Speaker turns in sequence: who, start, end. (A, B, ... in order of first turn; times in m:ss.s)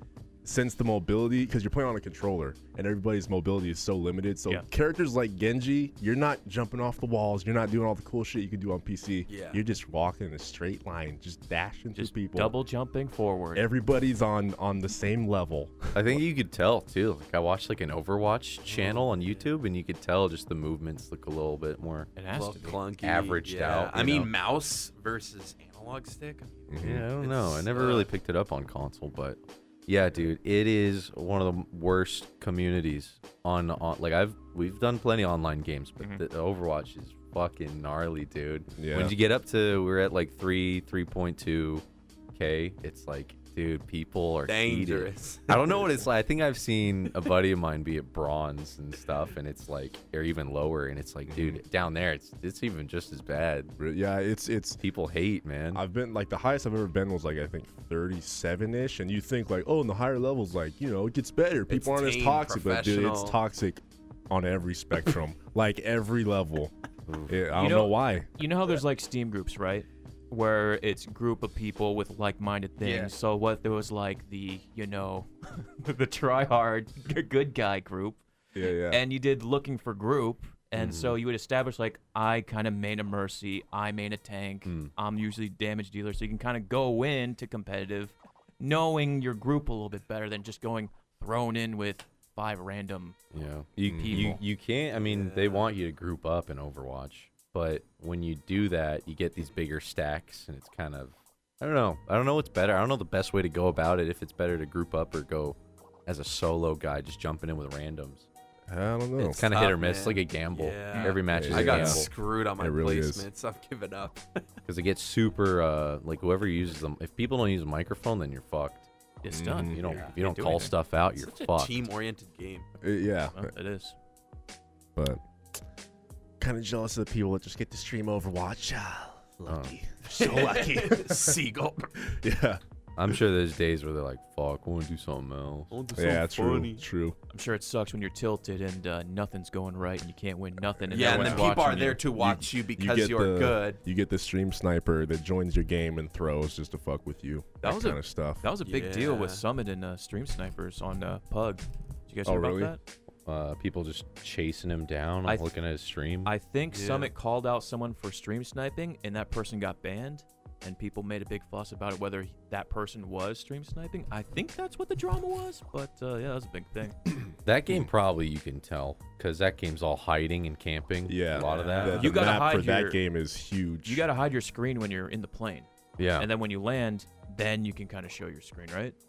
0:00.4-0:12.5 A
0:09.3-0:09.6 B
0:12.0-0:13.7 C
0:13.6-0:16.2 A
0:15.9-0:22.1 D
0:18.7-0:19.5 B
0:22.2-0:22.8 C
0:22.3-0:26.6 B
0:23.0-0:24.3 D
0:26.7-0:27.1 A
0:26.8-0:53.7 D
0:27.2-0:28.1 B
0:38.8-0:39.2 A
0:44.5-0:46.1 B
0:51.3-0:51.6 A
0:53.8-0:54.8 A
0:54.8-0:55.8 D
0:55.7-1:06.7 A
1:01.7-1:03.4 B
1:07.1-1:07.4 D
1:07.3-1:08.3 A
1:07.6-1:18.2 C
1:12.8-1:13.1 B
1:18.6-1:19.0 A
1:18.9-1:33.2 C
1:20.8-1:21.2 D
1:24.7-1:24.9 D
1:33.3-1:48.3 D
1:33.9-1:34.4 A
1:34.9-1:35.7 B
1:48.7-1:49.5 A
1:49.2-1:52.1 D
1:49.5-1:54.4 B
1:50.9-1:51.2 C
1:51.3-1:53.3 A
1:54.7-1:58.9 D
1:59.2-2:00.7 C
1:59.3-2:00.0 A
1:59.7-2:01.8 D
1:59.9-2:00.1 B
2:01.2-2:02.7 B
2:02.8-2:03.5 A
2:03.3-2:04.0 C
2:05.0-2:05.2 A
2:06.4-2:11.4 A
2:09.5-2:09.8 D
2:10.1-2:11.9 B
2:12.0-2:12.6 A
2:13.0-2:15.7 D
2:15.7-2:16.8 B
2:16.0-2:17.2 A
2:17.3-2:22.0 C
2:20.8-2:28.4 A
2:20.9-2:23.8 B
2:27.6-2:32.8 C
2:28.6-2:29.4 B
2:32.2-2:32.8 A
2:33.3-2:36.3 D
2:35.3-2:35.5 C
2:36.2-2:47.0 C
2:36.7-2:37.1 B
2:47.4-2:52.2 D
2:51.1-2:54.1 A
2:51.4-2:51.9 B
2:51.8-2:53.0 C
2:53.8-2:59.0 C
2:56.0-2:56.3 D